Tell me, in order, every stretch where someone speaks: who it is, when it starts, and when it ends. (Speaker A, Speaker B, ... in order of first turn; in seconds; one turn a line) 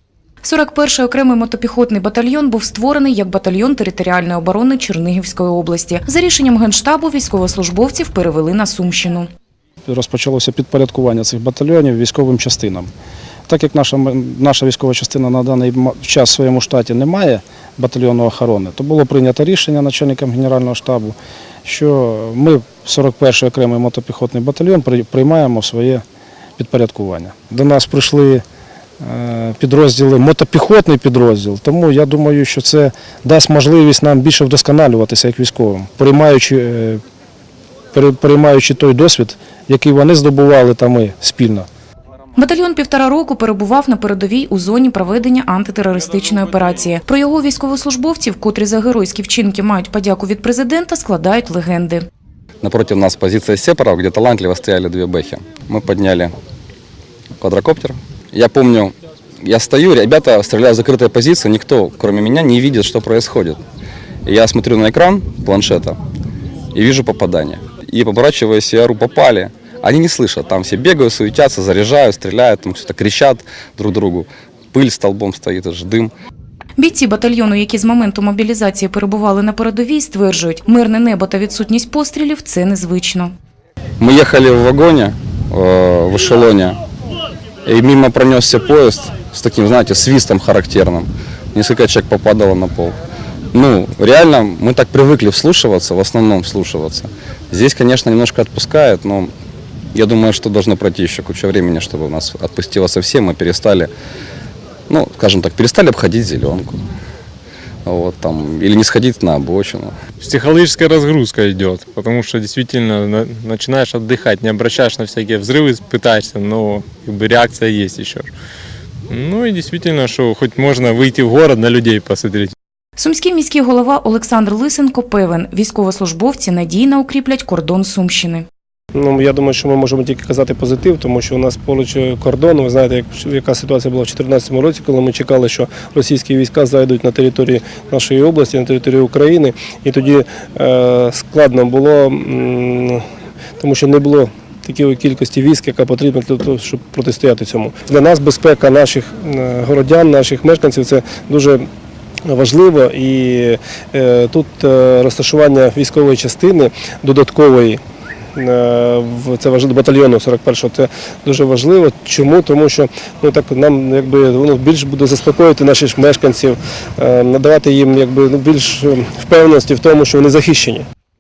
Speaker A: 0.4-9.3
Speaker B: 9.9-12.9
Speaker B: 13.5-26.0
Speaker B: 26.6-28.4
Speaker B: 29.0-37.0
Speaker B: 37.9-41.7
Speaker A: 42.4-52.1
Speaker C: 52.6-56.3
Speaker C: 57.4-63.6
Speaker C: 64.3-66.0
Speaker C: 66.7-76.1
Speaker A: 76.8-83.3
Speaker C: 84.0-86.8
Speaker C: 87.7-93.0
Speaker C: 93.5-99.3
Speaker C: 99.9-103.9
Speaker C: 104.9-106.8
Speaker C: 107.9-109.9
Speaker D: 110.2-118.3
Speaker D: 119.1-122.5
Speaker A: 123.0-128.5
Speaker E: 128.9-143.0
Speaker E: 143.6-151.7
Speaker E: 152.3-157.8
Speaker E: 158.4-170.9